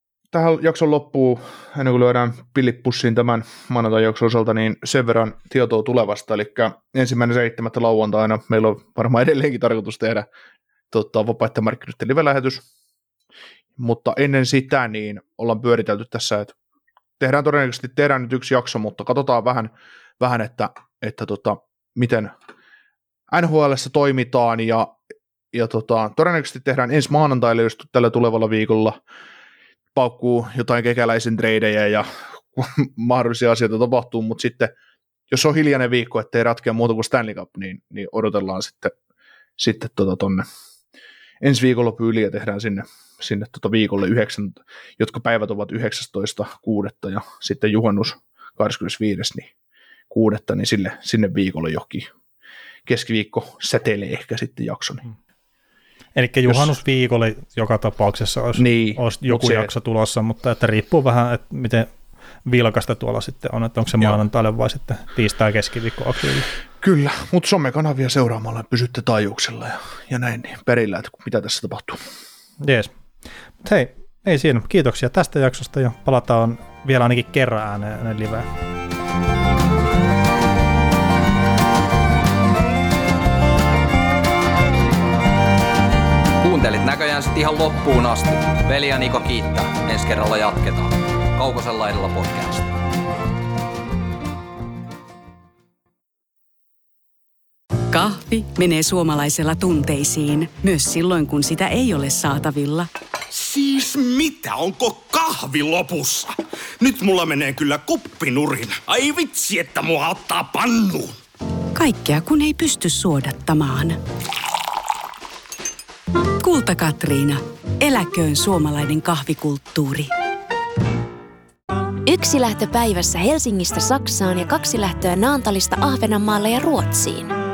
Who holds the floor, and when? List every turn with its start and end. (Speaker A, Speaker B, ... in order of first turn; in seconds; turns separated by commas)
Speaker A: 0.3-10.3, Speaker A: 10.9-12.6, Speaker A: 13.8-16.5, Speaker A: 17.2-22.3, Speaker A: 23.3-25.0, Speaker A: 25.5-29.0, Speaker A: 29.9-34.7, Speaker A: 35.3-38.9, Speaker A: 39.6-40.5, Speaker A: 41.4-49.5, Speaker A: 50.1-52.1, Speaker A: 52.9-55.0, Speaker B: 56.1-61.9, Speaker A: 56.5-56.7, Speaker A: 58.5-59.7, Speaker B: 62.5-66.5, Speaker A: 66.8-72.0, Speaker B: 72.6-72.9, Speaker B: 73.6-78.5, Speaker C: 86.4-92.7, Speaker D: 97.9-102.9, Speaker E: 103.3-111.2, Speaker D: 111.7-114.0, Speaker D: 116.4-120.1, Speaker F: 122.0-127.3